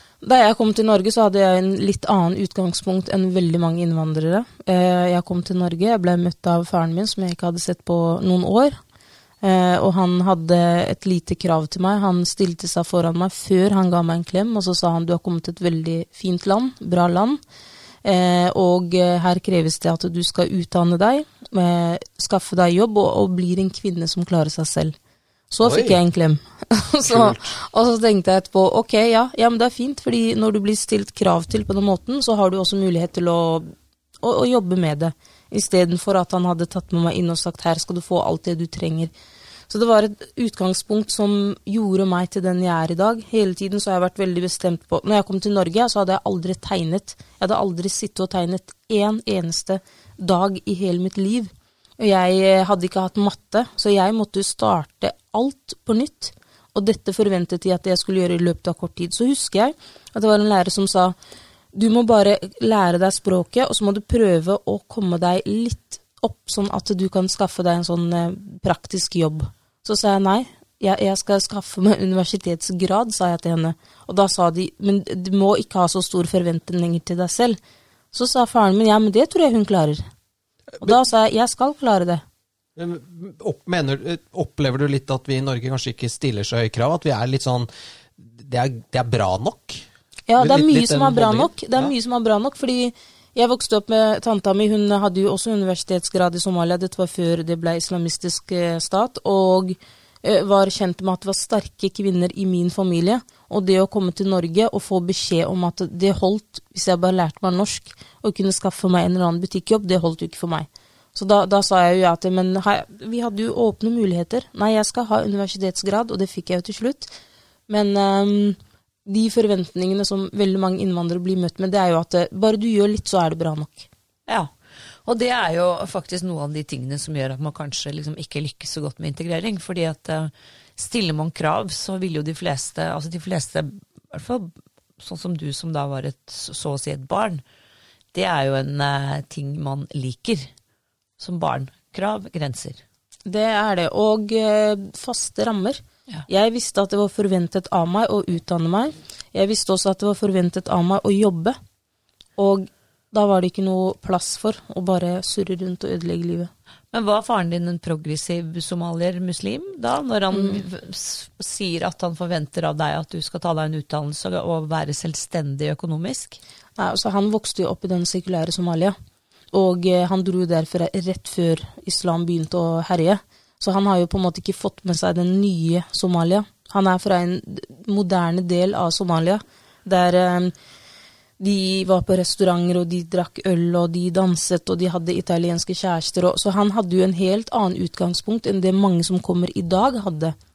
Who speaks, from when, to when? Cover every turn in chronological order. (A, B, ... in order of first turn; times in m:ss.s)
0:00.2-0:08.8 A
0:09.4-0:17.4 A
0:18.0-0:25.0 A
0:25.5-0:39.1 A
0:25.6-0:26.0 B
0:27.0-0:27.5 B
0:39.7-1:01.2 A
1:01.7-1:17.6 A
1:18.1-1:20.0 A
1:20.8-1:22.2 A
1:22.8-1:29.9 B
1:30.3-1:57.1 A
1:30.4-1:31.9 B
1:57.7-2:03.9 A
2:05.0-2:17.4 C
2:18.1-2:20.5 C
2:21.2-2:22.8 C
2:23.3-2:31.6 A
2:32.4-2:36.5 A
2:36.9-2:46.4 C
2:40.3-2:40.6 A
2:46.8-2:49.0 A
2:49.5-3:00.5 A
3:01.4-3:10.4 A